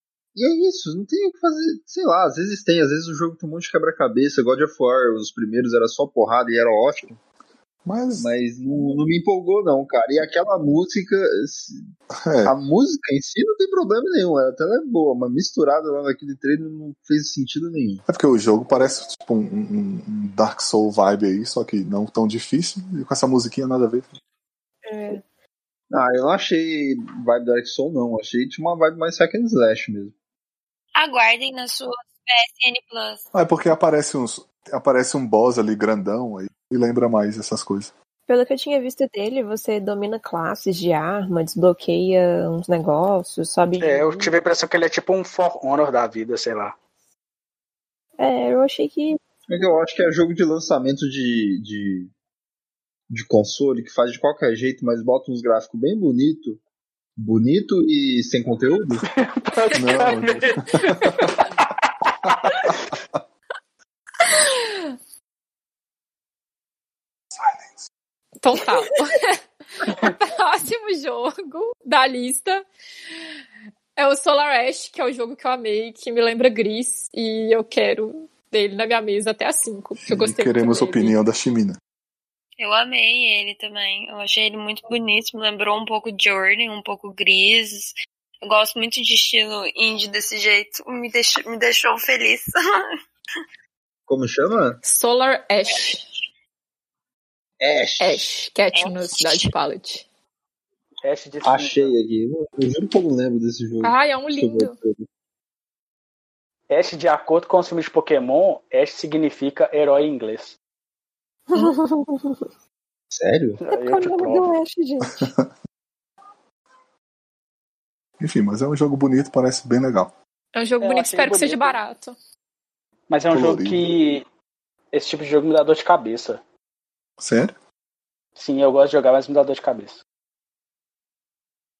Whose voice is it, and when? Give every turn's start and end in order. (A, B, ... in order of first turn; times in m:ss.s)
0:00.3-0:07.2 A
0:07.8-0:08.3 B
0:08.2-0:11.8 A
0:12.2-0:12.5 B
0:12.4-0:18.0 A
0:18.1-0:24.2 B
0:24.8-0:25.2 C
0:25.9-0:30.1 A
0:31.0-0:33.2 D
0:33.3-0:37.9 B
0:38.3-0:44.3 C
0:43.8-0:46.8 E
0:48.2-0:49.2 C
0:49.5-0:52.1 A
0:53.1-0:56.6 A
0:57.2-0:59.0 A
0:59.0-1:02.7 E
0:59.7-1:01.4 B
1:02.2-1:03.2 B
1:04.2-1:04.8 F
1:08.4-1:12.6 F
1:14.0-1:21.2 F
1:20.0-1:21.8 B
1:22.6-1:32.9 D
1:34.1-1:34.8 A
1:34.8-1:36.0 F
1:37.6-1:38.3 A
1:38.0-1:40.0 F
1:38.7-1:39.5 D
1:41.0-1:41.9 E
1:41.4-1:45.0 A
1:43.8-1:44.8 F
1:46.7-1:50.6 E
1:51.5-1:52.4 C
1:53.1-1:53.6 A
1:53.6-1:54.5 E
1:53.7-1:55.3 C
1:55.1-1:55.5 B
1:58.2-2:00.1 B
2:00.5-2:02.1 F
2:00.8-2:01.8 E
2:03.1-2:04.2 E
2:03.3-2:03.8 B
2:04.9-2:06.4 E
2:07.2-2:07.5 B
2:08.4-2:10.0 E